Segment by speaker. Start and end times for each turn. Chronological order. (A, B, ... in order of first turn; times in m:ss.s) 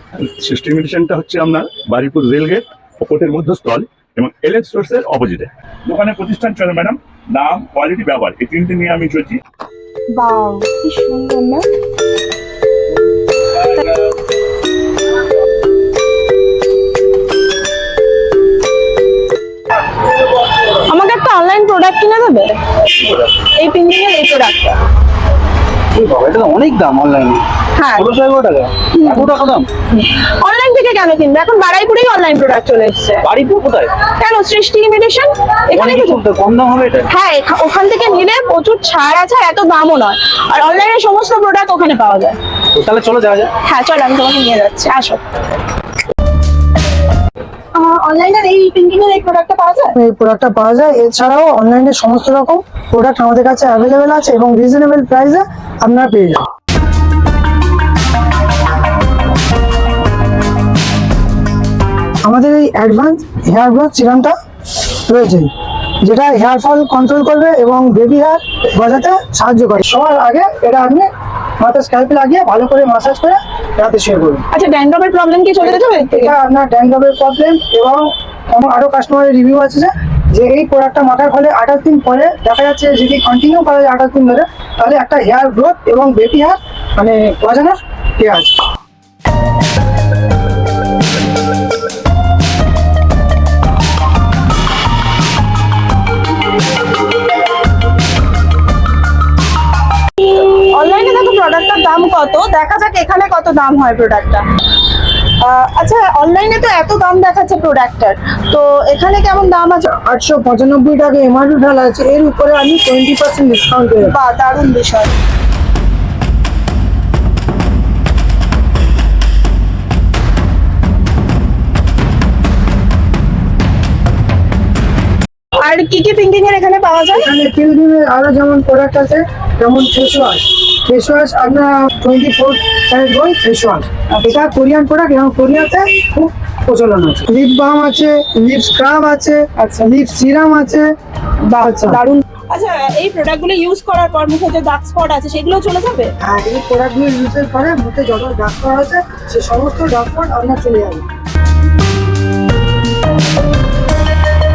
0:00.2-0:09.4 A
0:10.1-0:11.6 B
0:20.6-0:24.8 B
0:25.9-0:27.4 C
0:27.8-0:28.1 B
0:28.0-0:29.7 C
0:28.9-0:33.3 B
0:33.3-0:33.9 C
0:34.0-0:36.2 B
0:35.8-0:37.0 C
0:37.1-0:42.4 B
0:42.8-0:43.5 C
0:43.6-0:45.2 B
0:47.8-0:50.0 B
0:50.0-0:56.4 D
1:02.3-1:05.5 D
1:06.0-1:11.1 D
1:11.6-1:14.4 D
1:14.5-1:16.3 B
1:15.6-1:28.6 D
1:40.2-1:44.4 B
1:45.4-1:49.8 B
1:49.8-1:54.2 D
1:54.0-1:55.1 B
2:05.6-2:07.3 B
2:07.2-2:20.9 D
2:19.6-2:19.9 B
2:21.5-2:26.1 B
2:21.6-2:22.0 D
2:26.2-2:31.0 D